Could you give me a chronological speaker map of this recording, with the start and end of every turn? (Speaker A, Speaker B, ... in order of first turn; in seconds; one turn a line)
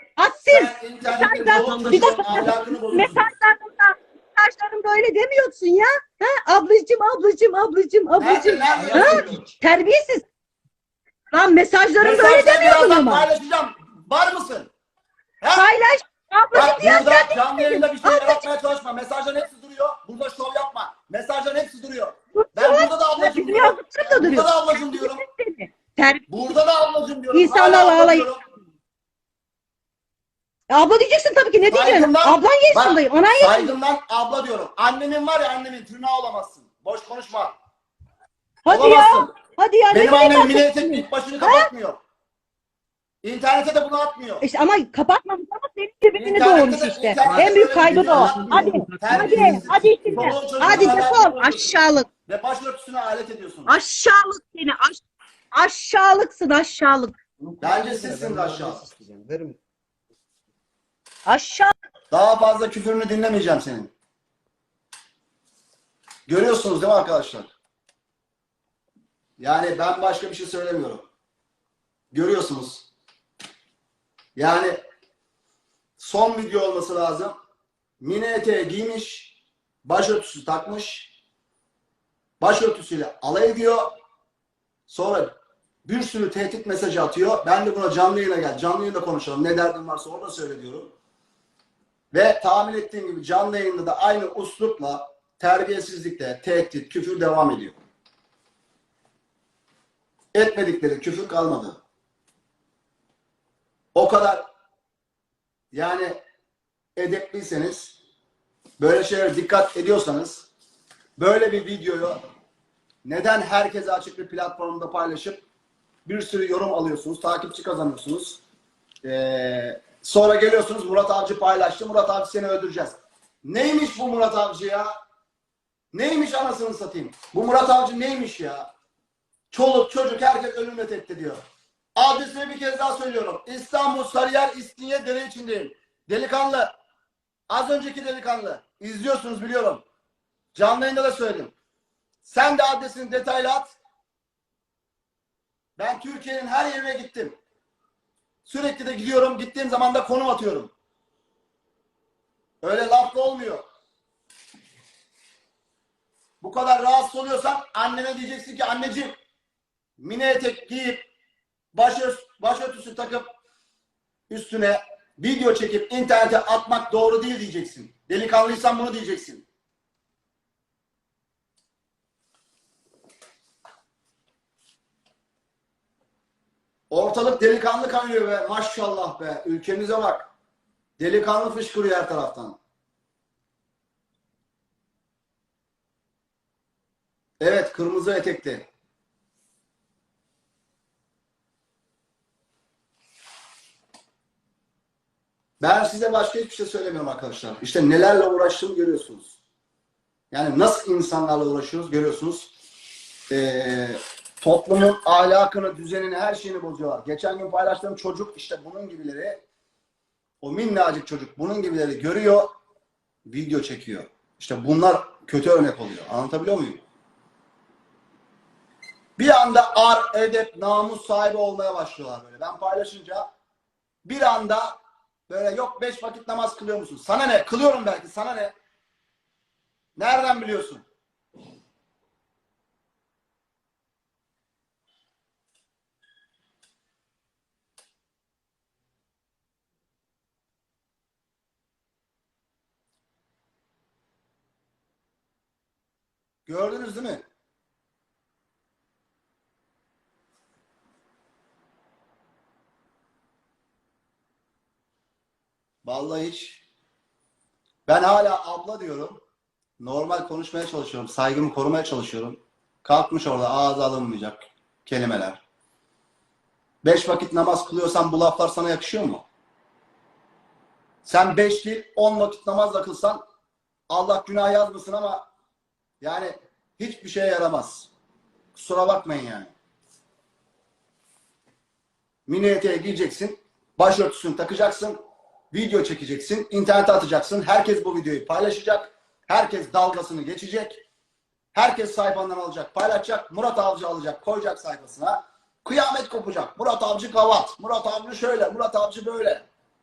Speaker A: 0.2-10.2
Speaker B: 0.5-3.3
Speaker C: 1.5-2.6
Speaker B: 8.2-9.4
Speaker C: 8.7-9.5
Speaker A: 11.3-13.3
Speaker B: 12.0-14.7
Speaker B: 15.4-15.7
Speaker A: 15.5-18.5
Speaker B: 16.5-25.2
Speaker A: 22.3-26.5
Speaker B: 26.3-28.4
Speaker A: 27.3-28.3
Speaker A: 30.7-33.7
Speaker B: 31.6-37.5
Speaker A: 38.6-41.7
Speaker B: 38.7-39.3
Speaker B: 39.9-42.0
Speaker B: 43.2-44.5
Speaker A: 44.4-52.1
Speaker B: 46.2-53.7
Speaker C: 47.2-51.0
Speaker A: 53.7-55.0
Speaker A: 55.5-57.2
Speaker C: 57.4-59.6
Speaker B: 57.6-58.8
Speaker A: 61.3-61.7
Speaker B: 62.1-63.9
Speaker B: 66.3-67.5
Speaker B: 69.4-71.1
Speaker B: 72.1-72.9
Speaker B: 74.4-74.8
Speaker B: 76.0-77.3
Speaker B: 78.0-81.1
Speaker B: 82.4-83.9
Speaker B: 84.9-85.3
Speaker B: 85.9-90.9
Speaker B: 92.1-97.8
Speaker B: 100.3-101.8
Speaker B: 104.0-104.5
Speaker B: 105.7-106.2
Speaker B: 107.0-108.0
Speaker B: 108.8-110.5
Speaker B: 111.2-112.2
Speaker B: 113.0-115.5
Speaker B: 116.0-118.4
Speaker B: 119.0-124.9
Speaker B: 125.9-128.7
Speaker B: 129.5-131.4
Speaker B: 132.0-136.7
Speaker B: 137.5-139.8
Speaker B: 140.6-141.5
Speaker B: 142.2-143.8
Speaker B: 145.8-147.4
Speaker B: 148.4-150.7
Speaker B: 152.6-153.7
Speaker B: 156.4-159.1
Speaker B: 160.0-161.1
Speaker B: 161.7-163.3
Speaker B: 164.3-169.5
Speaker B: 176.9-180.3
Speaker B: 181.0-182.6
Speaker B: 187.4-188.7
Speaker B: 195.6-199.3
Speaker B: 200.3-202.5
Speaker B: 203.3-209.4
Speaker B: 210.4-212.5
Speaker B: 213.3-216.8
Speaker B: 219.2-223.3
Speaker B: 224.1-224.8
Speaker B: 225.3-228.5
Speaker B: 230.0-230.8
Speaker B: 246.5-247.2
Speaker B: 255.8-256.6
Speaker B: 257.9-259.2
Speaker B: 259.8-265.4
Speaker B: 266.8-269.3
Speaker B: 271.1-273.2
Speaker B: 273.9-275.2
Speaker B: 276.0-277.9
Speaker B: 278.6-279.5
Speaker B: 282.3-285.0
Speaker B: 285.5-290.8
Speaker B: 291.6-299.5